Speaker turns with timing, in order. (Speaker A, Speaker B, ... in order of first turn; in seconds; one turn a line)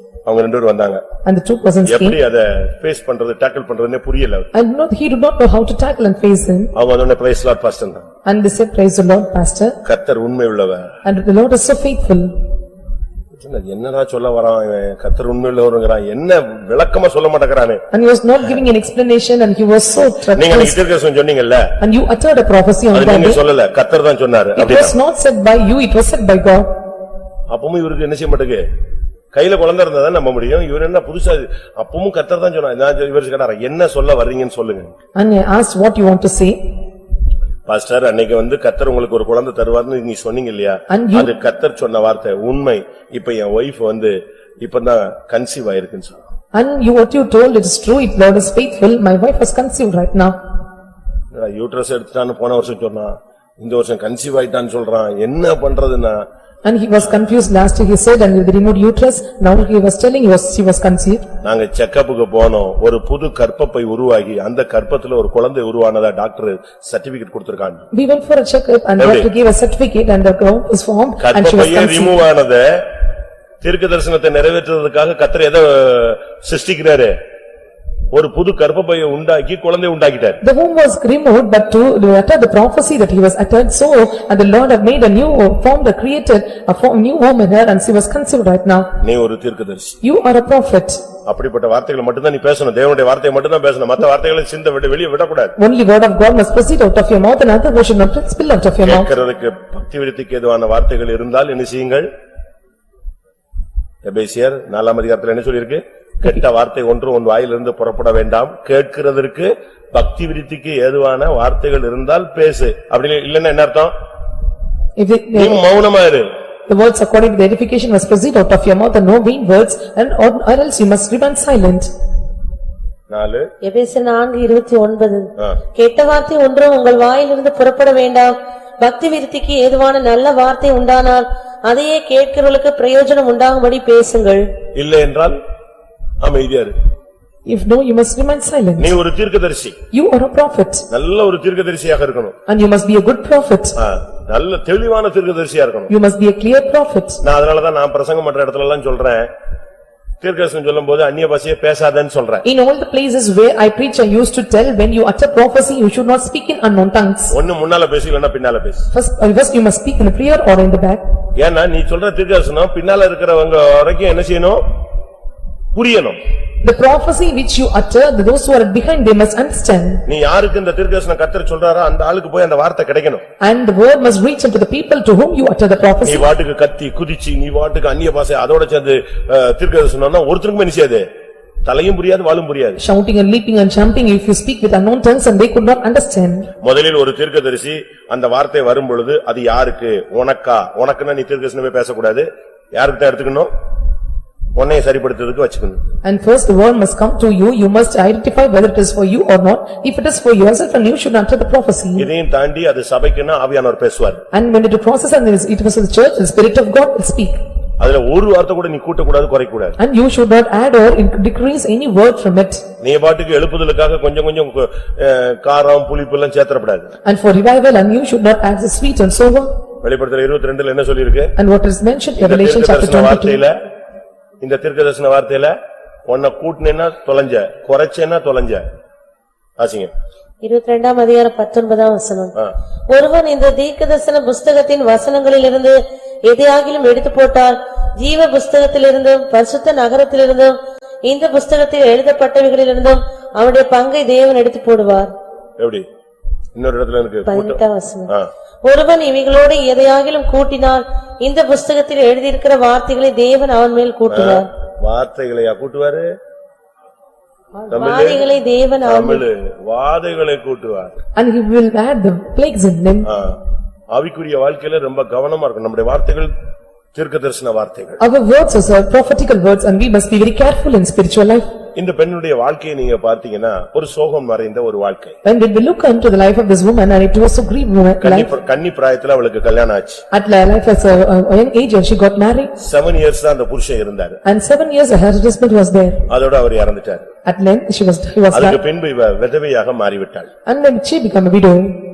Speaker A: 0.3-1.0
Speaker B: 1.2-2.2
Speaker A: 1.9-4.5
Speaker B: 4.5-6.7
Speaker A: 6.8-8.1
Speaker B: 8.2-9.8
Speaker A: 9.8-10.9
Speaker B: 11.1-12.3
Speaker A: 13.4-17.8
Speaker B: 17.9-20.8
Speaker A: 20.3-21.7
Speaker B: 21.8-23.4
Speaker A: 22.9-25.0
Speaker B: 24.6-26.7
Speaker A: 27.5-28.6
Speaker A: 29.3-34.9
Speaker B: 35.1-36.6
Speaker A: 37.7-46.2
Speaker B: 40.9-41.3
Speaker B: 46.5-50.4
Speaker A: 51.3-56.2
Speaker B: 56.6-61.3
Speaker A: 61.4-67.9
Speaker B: 67.9-72.2
Speaker A: 69.0-69.3
Speaker A: 71.2-72.8
Speaker A: 73.6-77.2
Speaker A: 78.1-80.4
Speaker B: 80.4-88.9
Speaker A: 89.0-90.0
Speaker B: 90.0-91.0
Speaker A: 91.3-95.5
Speaker B: 95.6-99.1
Speaker A: 98.8-102.1
Speaker A: 104.0-113.9
Speaker B: 115.0-115.6
Speaker A: 115.3-116.3
Speaker B: 116.7-121.9
Speaker A: 123.1-123.5
Speaker C: 123.6-134.4
Speaker A: 134.8-135.4
Speaker A: 136.2-136.7
Speaker B: 137.5-139.0
Speaker A: 138.8-139.8
Speaker B: 139.9-140.9
Speaker A: 140.9-142.3
Speaker B: 142.5-143.8
Speaker A: 143.8-145.9
Speaker B: 145.9-147.2
Speaker A: 147.2-149.3
Speaker A: 150.2-152.4
Speaker B: 152.4-157.4
Speaker A: 157.3-158.9
Speaker B: 158.9-161.0
Speaker A: 161.4-164.6
Speaker A: 165.8-166.2
Speaker B: 166.6-170.0
Speaker A: 170.1-173.2
Speaker B: 173.4-176.3
Speaker A: 176.0-181.1
Speaker A: 181.7-182.8
Speaker B: 182.8-186.5
Speaker A: 186.6-193.5
Speaker A: 194.6-195.8
Speaker B: 196.0-202.1
Speaker A: 202.0-204.2
Speaker B: 204.3-207.4
Speaker A: 207.8-209.8
Speaker B: 209.8-212.6
Speaker A: 212.8-216.9
Speaker B: 217.1-219.5
Speaker A: 219.8-221.3
Speaker B: 221.4-223.4
Speaker A: 222.2-223.5
Speaker A: 224.4-225.5
Speaker A: 226.1-228.7
Speaker A: 229.6-229.9
Speaker C: 230.4-232.3
Speaker C: 232.9-245.1
Speaker A: 245.6-245.8
Speaker A: 246.6-248.3
Speaker C: 247.3-248.1
Speaker C: 248.6-254.5
Speaker A: 254.1-256.1
Speaker A: 257.7-258.2
Speaker C: 257.8-259.2
Speaker A: 258.8-261.0
Speaker B: 261.2-263.1
Speaker A: 263.1-263.4
Speaker A: 263.9-266.3
Speaker A: 266.9-268.0
Speaker B: 268.0-271.5
Speaker A: 271.8-275.2
Speaker B: 275.2-278.3
Speaker A: 278.0-280.0
Speaker B: 280.1-282.5
Speaker A: 282.6-284.2
Speaker B: 284.2-286.0
Speaker A: 286.1-287.1
Speaker B: 287.3-288.6
Speaker A: 288.3-290.3
Speaker B: 290.5-291.8